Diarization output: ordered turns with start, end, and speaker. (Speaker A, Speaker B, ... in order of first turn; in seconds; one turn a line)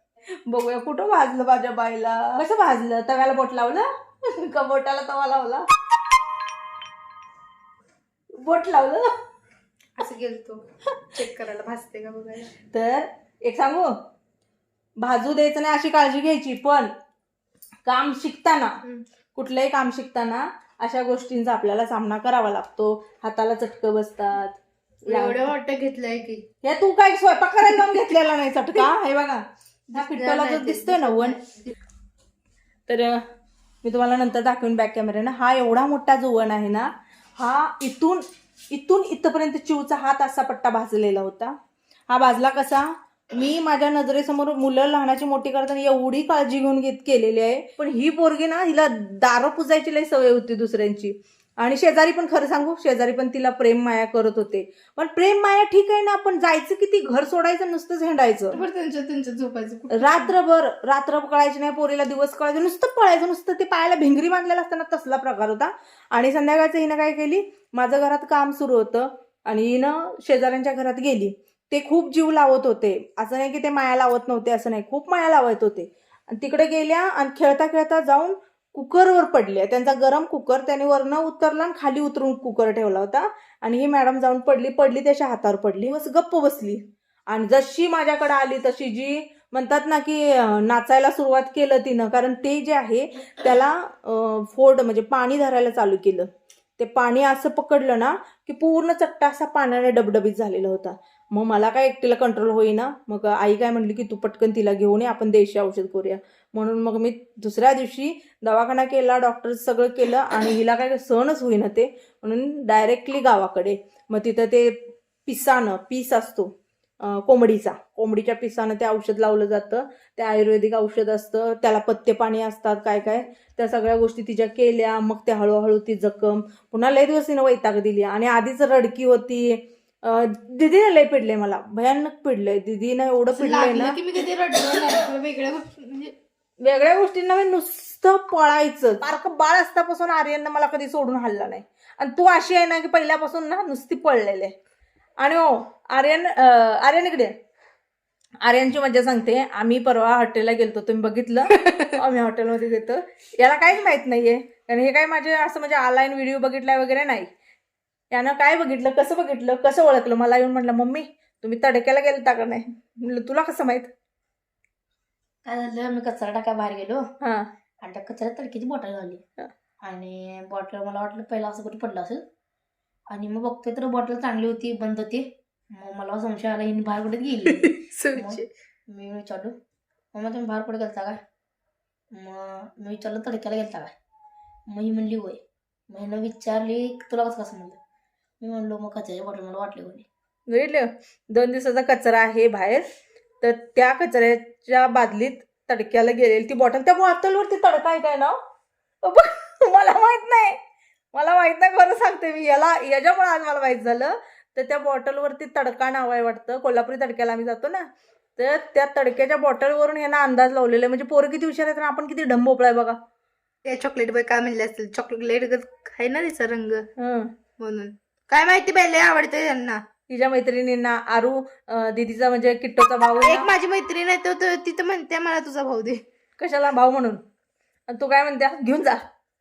Speaker A: 0.5-5.7
Speaker A: 8.4-9.1
Speaker B: 10.0-12.5
Speaker A: 12.6-13.9
Speaker A: 15.0-16.9
Speaker A: 17.8-18.7
Speaker A: 19.3-25.5
Speaker B: 25.0-26.4
Speaker A: 26.6-31.4
Speaker B: 29.9-31.5
Speaker A: 32.9-33.2
Speaker A: 33.8-41.5
Speaker A: 42.1-58.6
Speaker B: 58.5-60.3
Speaker A: 59.9-116.5
Speaker A: 117.0-134.0
Speaker B: 133.3-136.1
Speaker A: 136.6-144.6
Speaker A: 145.2-147.3
Speaker A: 148.4-157.3
Speaker A: 158.1-163.9
Speaker C: 165.4-167.0
Speaker A: 167.2-167.5
Speaker C: 167.8-169.2
Speaker C: 169.8-172.2
Speaker C: 173.1-179.5
Speaker B: 177.4-178.4
Speaker C: 180.1-181.2
Speaker C: 182.1-183.9
Speaker C: 184.7-187.8
Speaker C: 188.4-190.1
Speaker A: 190.5-192.9
Speaker A: 193.4-198.4
Speaker A: 199.0-200.6
Speaker A: 201.1-213.0
Speaker B: 213.6-216.9
Speaker A: 217.0-217.3
Speaker B: 217.6-219.8
Speaker A: 220.1-223.5
Speaker B: 223.2-226.0
Speaker A: 226.4-227.2
Speaker A: 227.9-229.0